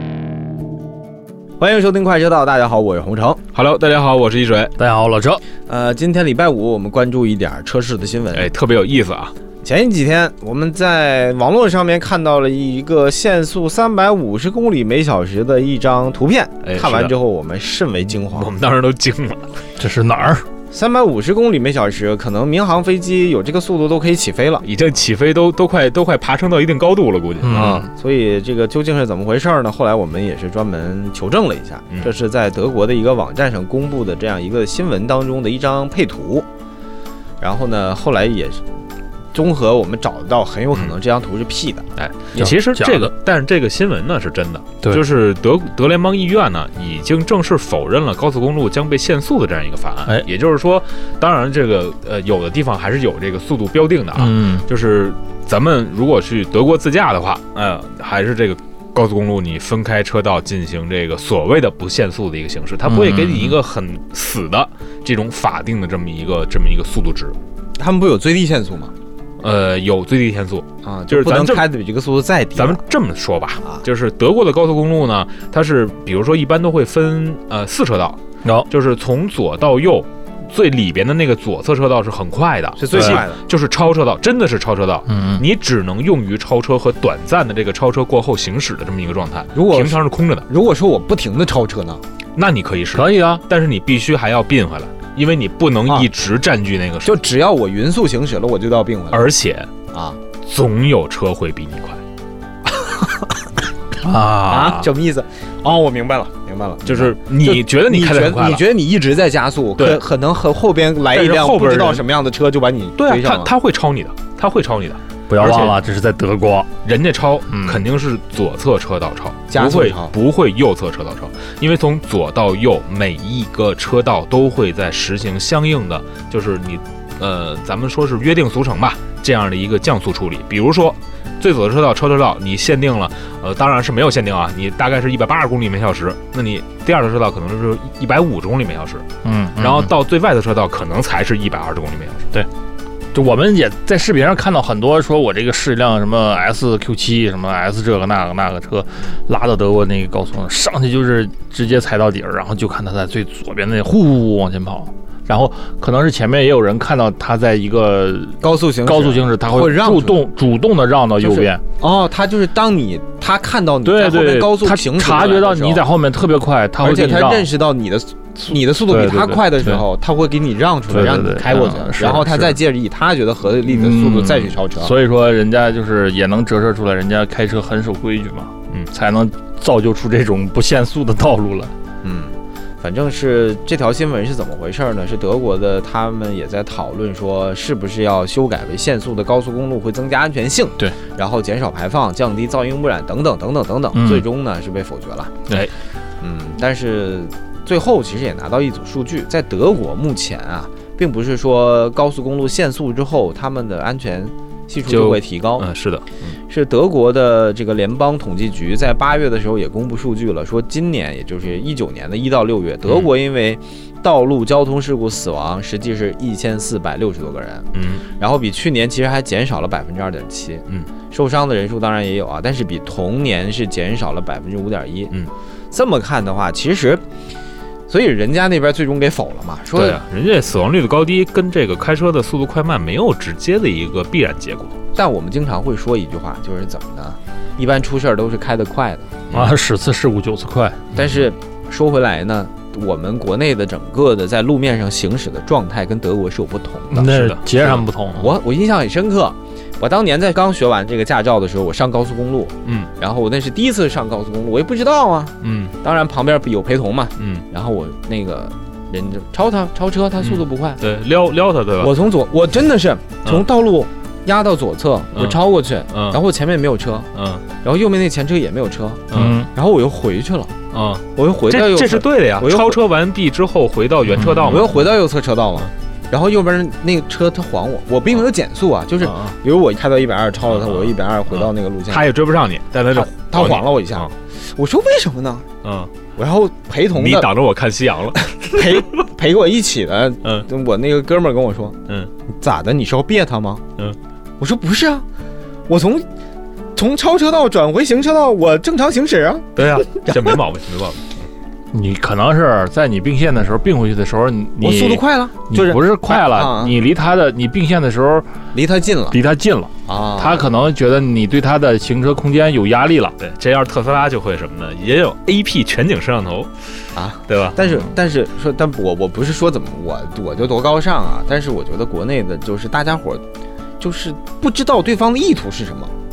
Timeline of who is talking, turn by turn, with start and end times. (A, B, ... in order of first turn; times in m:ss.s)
0:01.6-0:03.4 A
0:03.5-0:04.8 B
0:04.8-0:05.4 C
0:05.7-0:08.5 A
0:08.3-0:09.3 B
0:09.6-0:18.5 A
0:16.6-0:17.2 B
0:18.2-0:19.6 B
0:19.8-0:20.5 C
0:20.7-0:24.7 A
0:24.6-0:27.8 B
0:27.4-0:27.9 C
0:27.5-0:36.5 A
0:37.4-0:38.6 A
0:39.3-0:41.9 A
0:42.0-1:07.4 B
0:42.4-0:43.1 C
0:54.2-0:54.6 C
1:02.9-1:03.6 C
1:07.8-1:08.9 A
1:09.4-1:11.7 B
1:10.8-1:12.8 A
1:12.6-1:18.2 B
1:18.7-1:30.5 B
1:22.8-1:23.4 A
1:22.9-1:23.2 C
1:25.1-1:25.4 C
1:29.5-1:32.0 A
1:32.4-1:37.2 B
1:32.9-1:33.4 C
1:37.0-1:39.3 A
1:39.1-1:39.7 B
1:39.9-1:40.2 A
1:40.4-1:42.0 B
1:44.0-1:44.9 C
1:44.5-1:53.5 A
1:46.9-1:48.7 B
1:49.8-1:50.0 B
1:51.1-1:52.0 B
1:53.0-1:55.8 B
1:55.3-1:56.7 C
1:56.8-2:19.0 B
1:57.5-1:57.8 C
1:59.5-2:00.1 A
2:19.2-2:19.9 C
2:19.6-2:22.3 B
2:23.1-2:41.6 C
2:38.4-2:40.2 A
2:41.2-2:45.8 A
2:43.8-2:47.5 C
2:46.8-2:55.0 A
2:48.9-2:49.8 C
2:50.9-2:52.6 C
2:53.7-3:01.7 C
3:02.0-3:15.3 A
3:13.9-3:14.2 C
3:16.2-3:25.7 A
3:24.9-3:26.3 B
3:26.5-3:45.1 A
3:37.7-3:38.0 B
3:45.7-3:47.0 A
3:47.9-3:50.0 A
3:49.7-3:54.8 B
3:55.0-3:59.2 A
3:59.3-3:59.6 B
3:59.3-4:00.8 C
4:00.9-4:01.2 B
4:00.9-4:07.1 A
4:06.9-4:08.3 C
4:07.0-4:07.9 B
4:08.1-4:20.8 A
4:12.6-4:12.9 B
4:15.4-4:15.8 B
4:17.2-4:17.4 B
4:20.2-4:21.9 B
4:21.8-4:27.1 A
4:25.9-4:26.2 B
4:27.1-4:27.4 B
4:27.6-4:30.5 A
4:29.1-4:29.4 B
4:29.1-4:29.5 C
4:30.7-4:34.9 B
4:31.2-4:32.8 A
4:34.4-4:42.1 A
4:39.0-4:39.4 B
4:40.5-4:44.1 B
4:42.9-4:45.4 A
4:45.6-4:46.0 B
4:46.2-4:47.3 A
4:47.0-4:49.0 B
4:48.4-4:51.8 A
4:52.3-4:53.6 A
4:54.4-4:55.0 A
4:55.7-4:56.1 A
4:56.8-5:00.4 A
4:59.6-5:01.2 B
5:01.7-5:08.3 C
5:04.6-5:06.8 A
5:08.5-5:09.2 A
5:09.1-5:13.2 C
5:09.9-5:10.5 A
5:13.2-5:16.5 B
5:17.0-5:23.2 A
5:17.3-5:17.6 B
5:23.8-5:25.9 A